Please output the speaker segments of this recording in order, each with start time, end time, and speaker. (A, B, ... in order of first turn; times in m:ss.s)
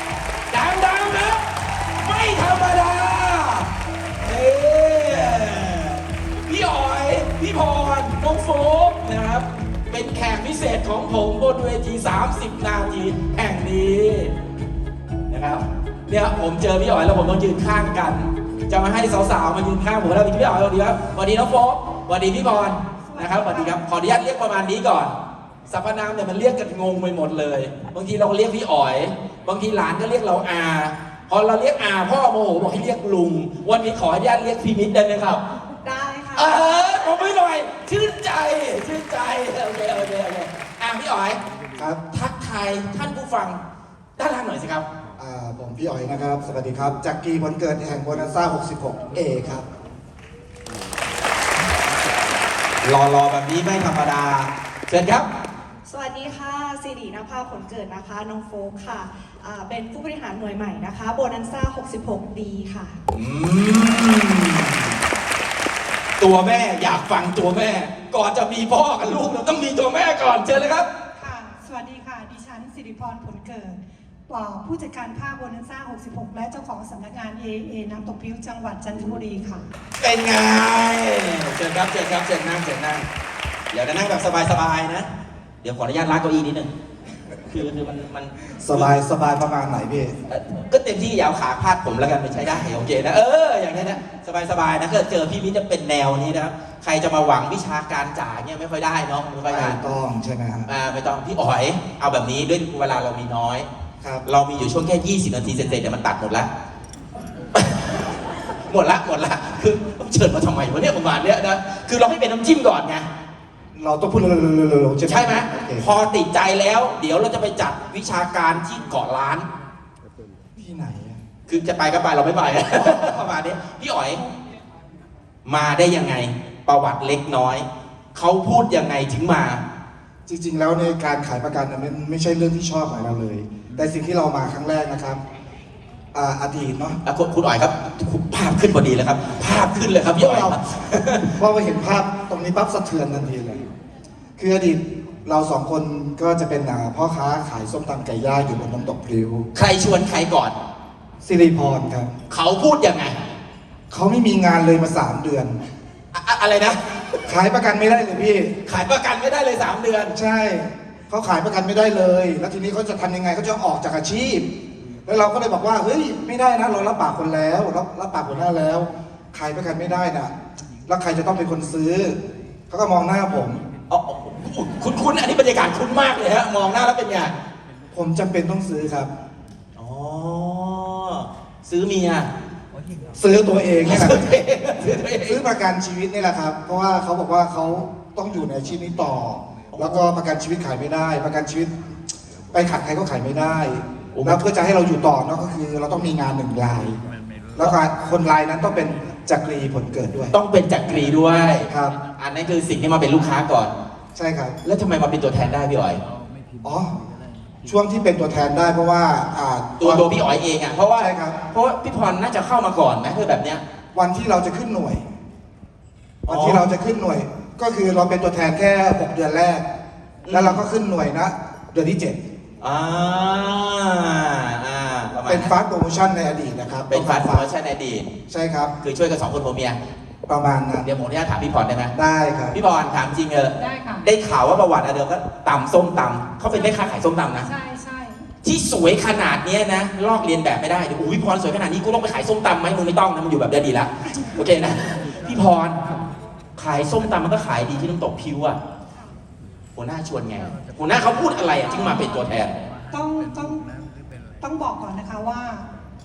0:00.5-0:03.7 A
0:04.2-0:14.3 A
0:15.3-0:25.1 A
0:23.1-0:23.8 B
0:25.7-0:35.4 A
0:35.8-0:36.7 C
0:36.3-0:41.4 A
0:41.7-0:42.0 D
0:42.1-0:43.6 A
0:44.2-0:44.8 A
0:45.2-0:49.6 D
0:52.8-0:55.3 A
0:55.9-1:03.0 C
1:03.1-1:04.9 A
1:06.2-1:10.9 A
1:11.2-1:19.7 B
1:20.0-1:23.1 A
1:23.7-1:25.1 A
1:25.6-1:26.7 A
1:27.5-1:28.9 A
1:28.6-1:30.1 D
1:30.3-1:39.8 A
1:39.5-1:40.7 D
1:40.6-1:43.7 A
1:44.2-1:46.5 A
1:47.5-1:53.1 A
1:53.7-1:55.8 D
1:55.0-1:59.5 A
2:00.6-2:01.2 D
2:01.5-2:04.2 A
2:05.4-2:09.6 A
2:10.3-2:15.2 D
2:16.1-2:17.0 D
2:17.0-2:21.3 A
2:20.2-2:20.6 D
2:21.2-2:23.6 D
2:24.4-2:29.4 D
2:29.5-2:30.6 A
2:31.2-2:32.1 D
2:32.3-2:33.2 A
2:33.9-2:35.6 D
2:36.1-2:37.2 A
2:37.2-2:38.6 D
2:38.6-2:40.2 A
2:40.1-2:44.5 D
2:45.0-2:50.4 D
2:50.9-2:52.2 D
2:52.7-2:53.6 D
2:53.9-2:57.3 A
2:57.9-2:59.1 D
2:59.8-3:02.3 A
3:03.2-3:04.4 D
3:03.8-3:05.4 A
3:05.2-3:12.0 D
3:09.7-3:10.0 A
3:12.5-3:17.0 D
3:14.1-3:14.4 A
3:17.6-3:20.3 D
3:20.3-3:23.7 A
3:21.7-3:21.9 D
3:24.1-3:24.6 D
3:24.6-3:26.0 A
3:26.6-3:26.9 D
3:27.6-3:30.1 D
3:29.8-3:33.6 A
3:31.0-3:31.4 D
3:33.9-3:35.1 D
3:36.2-3:36.6 A
3:36.3-3:39.6 D
3:40.2-3:40.6 A
3:40.3-3:42.2 D
3:42.6-3:45.5 A
3:45.3-3:47.5 D
3:46.9-3:48.1 A
3:48.3-3:48.7 D
3:48.8-3:49.8 A
3:50.3-3:50.9 D
3:50.8-3:51.9 A
3:51.9-3:52.6 D
3:52.5-3:57.5 A
3:53.6-3:54.0 B
3:56.5-3:56.8 B
3:57.4-3:58.2 B
3:58.4-4:05.8 A
4:06.6-4:08.6 A
4:09.8-4:12.5 A
4:11.7-4:12.2 B
4:12.9-4:13.6 B
4:14.4-4:15.7 B